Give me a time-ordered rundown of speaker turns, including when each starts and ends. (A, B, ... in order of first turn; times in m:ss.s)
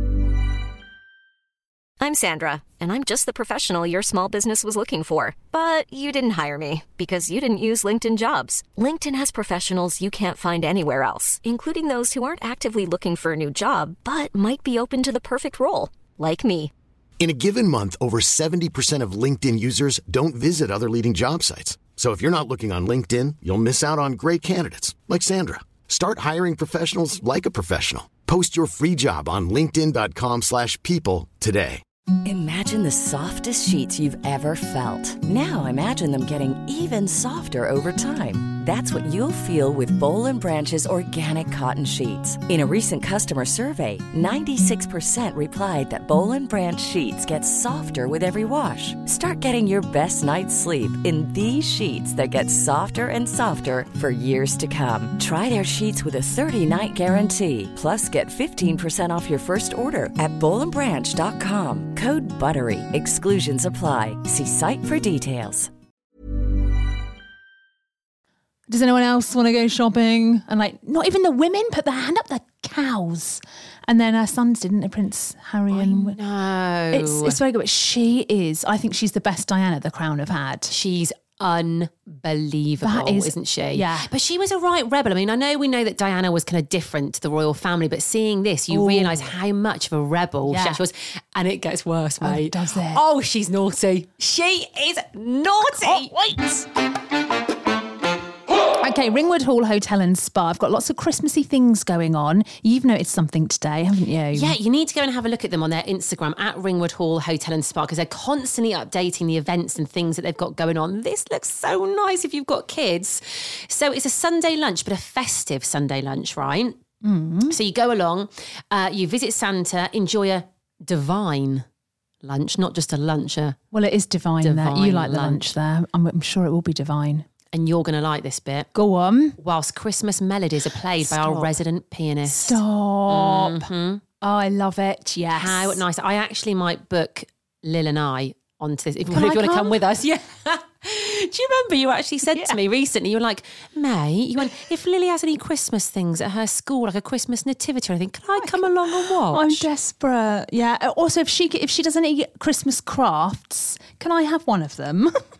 0:02.0-0:16.7 A
0:17.2-0:31.8 B
0:32.2-1:05.7 C
1:08.7-1:16.2 D
1:15.7-1:17.4 E
1:16.9-1:20.7 D
1:20.7-1:36.1 E
1:22.8-1:24.1 D
1:28.7-1:29.4 D
1:30.4-1:30.8 D
1:32.2-1:33.0 D
1:35.6-1:36.6 D
1:38.8-1:44.6 D
1:44.3-1:56.7 E
1:57.0-1:57.6 D
1:57.5-2:01.6 E
2:02.2-2:03.6 E
2:03.7-2:07.3 D
2:04.4-2:05.5 E
2:07.5-2:08.7 E
2:08.7-2:09.4 D
2:09.4-2:14.0 E
2:11.0-2:11.6 D
2:12.2-2:13.7 D
2:14.2-2:15.8 D
2:15.3-2:29.7 E
2:19.1-2:19.8 D
2:22.3-2:22.6 D
2:28.4-2:35.1 D